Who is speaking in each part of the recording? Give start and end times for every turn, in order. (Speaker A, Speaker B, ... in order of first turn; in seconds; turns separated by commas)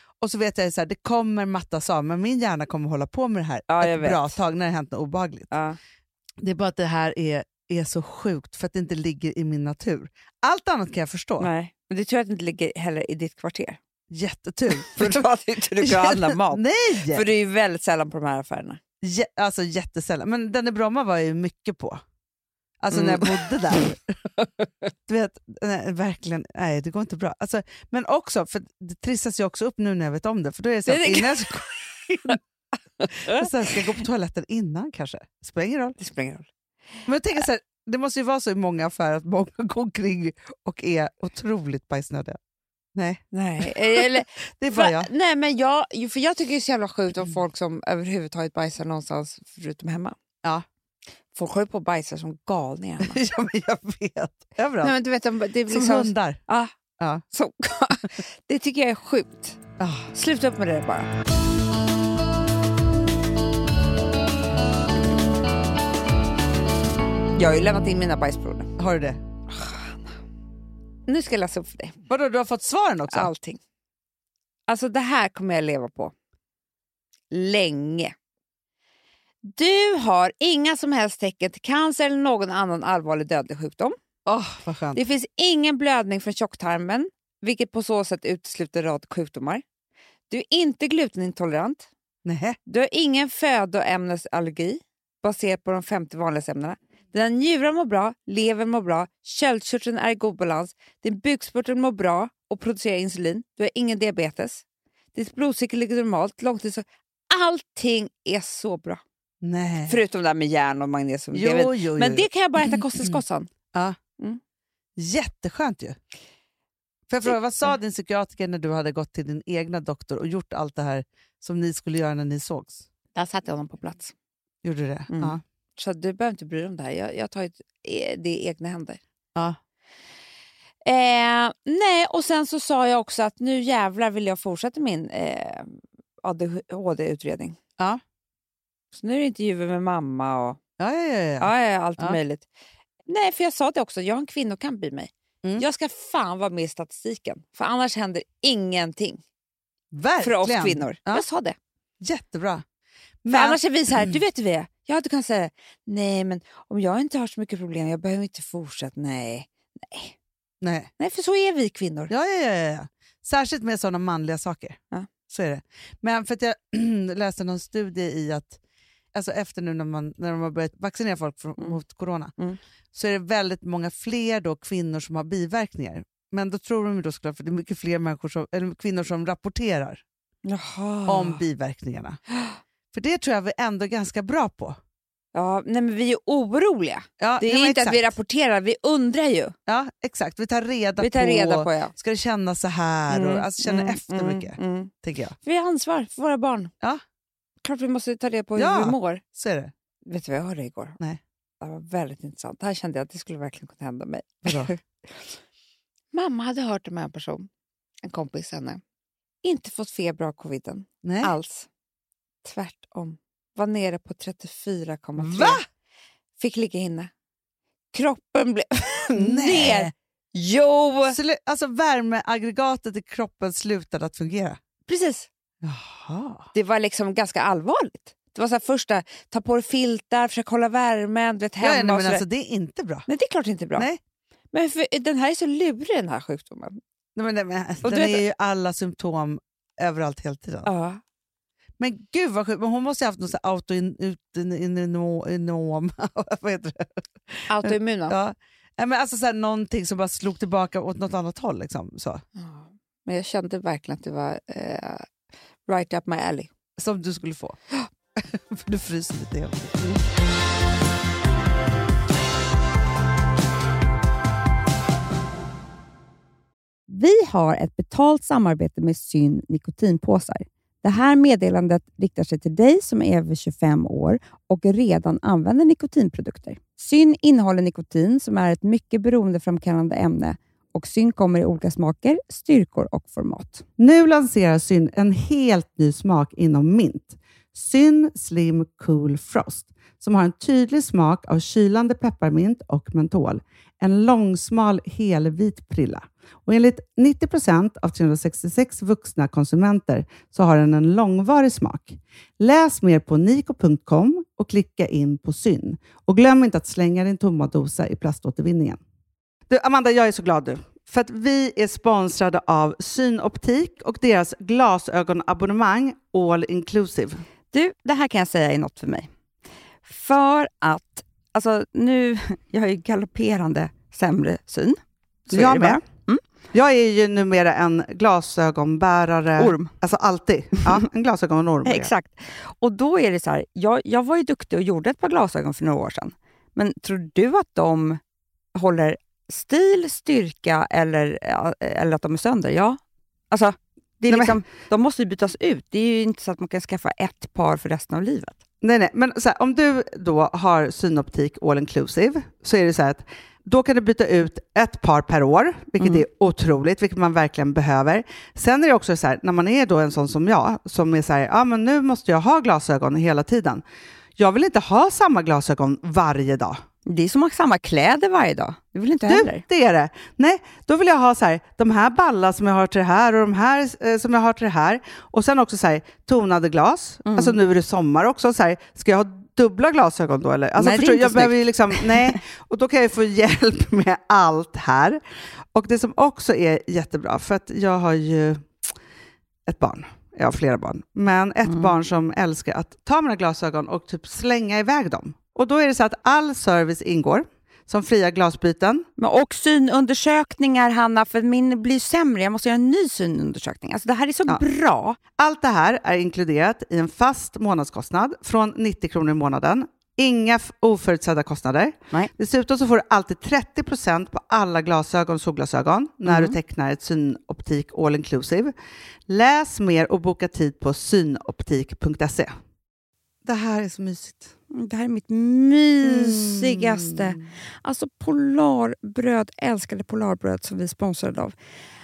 Speaker A: 0.2-5.5, Speaker B: 3.7-4.4, Speaker B: 5.5-5.8, Speaker A: 6.4-11.5, Speaker B: 11.4-13.8, Speaker A: 14.1-15.3, Speaker B: 14.7-18.8, Speaker A: 15.8-17.2, Speaker A: 19.0-22.0, Speaker A: 22.8-24.0, Speaker B: 22.9-23.9, Speaker A: 25.1-32.4, Speaker B: 30.9-32.4, Speaker B: 33.0-33.8, Speaker A: 33.2-36.0, Speaker B: 36.0-36.5, Speaker A: 37.0-42.4, Speaker A: 42.9-45.1, Speaker B: 43.3-50.2, Speaker B: 51.3-53.2, Speaker A: 53.0-54.9, Speaker B: 54.8-56.7, Speaker A: 55.7-56.4, Speaker A: 57.0-57.2, Speaker B: 57.3-59.6, Speaker A: 59.8-60.1, Speaker B: 60.1-61.1, Speaker B: 67.3-68.7, Speaker A: 68.8-69.2, Speaker B: 69.5-70.1, Speaker B: 71.1-72.0, Speaker A: 72.1-73.3, Speaker B: 73.1-73.6, Speaker B: 74.7-76.1, Speaker B: 77.3-78.1, Speaker B: 79.4-84.0, Speaker A: 84.2-85.0, Speaker B: 84.9-89.6, Speaker B: 90.3-91.9, Speaker A: 92.2-92.6, Speaker B: 92.7-104.6, Speaker B: 105.1-109.0, Speaker A: 109.4-110.0, Speaker B: 109.9-113.5, Speaker A: 111.3-113.2, Speaker A: 115.0-116.0, Speaker A: 117.1-122.8, Speaker B: 123.1-124.1, Speaker A: 124.6-125.4, Speaker B: 125.1-129.0, Speaker B: 130.8-137.6, Speaker B: 138.9-140.6, Speaker A: 140.8-142.2, Speaker B: 141.4-142.5, Speaker B: 143.1-149.2, Speaker A: 149.9-151.2, Speaker B: 150.2-151.6, Speaker A: 152.0-152.6, Speaker A: 153.2-154.2, Speaker B: 153.3-160.2, Speaker A: 160.6-160.9, Speaker B: 161.0-162.1, Speaker A: 162.1-168.6, Speaker A: 169.1-172.3, Speaker A: 172.9-180.0, Speaker B: 180.4-181.4, Speaker A: 181.1-182.2, Speaker B: 182.3-182.6, Speaker A: 182.9-184.8, Speaker B: 185.3-189.5, Speaker A: 187.2-188.1, Speaker A: 189.7-195.4, Speaker B: 191.0-191.9, Speaker B: 193.1-194.9, Speaker B: 195.4-196.7, Speaker B: 197.6-199.2, Speaker A: 198.6-199.7, Speaker B: 200.1-201.0, Speaker B: 201.6-205.4, Speaker A: 204.4-204.7, Speaker B: 206.1-207.5, Speaker B: 208.0-208.8, Speaker B: 209.4-211.7, Speaker A: 211.0-211.3, Speaker B: 212.4-215.6, Speaker A: 215.2-215.6, Speaker B: 216.4-217.1, Speaker B: 217.9-221.2, Speaker A: 219.2-219.9, Speaker A: 221.1-224.6, Speaker B: 224.9-225.3, Speaker A: 225.6-226.5, Speaker B: 226.5-232.2, Speaker A: 231.6-233.1, Speaker B: 233.1-233.9, Speaker B: 234.5-236.8, Speaker A: 237.2-240.7, Speaker B: 237.8-238.2, Speaker B: 240.6-241.0, Speaker A: 241.8-252.2, Speaker B: 247.5-248.2, Speaker B: 252.3-255.1, Speaker B: 255.7-256.5, Speaker A: 256.8-257.6, Speaker A: 258.2-260.0, Speaker B: 266.9-283.6, Speaker A: 283.8-308.8, Speaker A: 309.5-317.2, Speaker B: 317.5-319.1, Speaker B: 319.8-326.2, Speaker A: 325.3-325.8, Speaker A: 326.5-331.9, Speaker B: 329.4-329.7, Speaker B: 331.6-338.0, Speaker B: 338.5-342.8, Speaker B: 343.3-348.4, Speaker A: 344.1-344.4, Speaker A: 348.6-363.6, Speaker B: 355.8-356.0, Speaker A: 364.2-366.6, Speaker B: 366.9-369.4, Speaker A: 369.1-385.0, Speaker B: 377.0-377.4, Speaker B: 380.6-382.2, Speaker A: 385.5-388.5, Speaker A: 389.4-398.9, Speaker B: 391.4-391.7, Speaker B: 399.0-405.0, Speaker A: 405.2-418.5, Speaker B: 416.0-416.4, Speaker A: 419.1-422.3, Speaker A: 423.2-424.3, Speaker B: 424.5-431.3, Speaker A: 425.8-427.2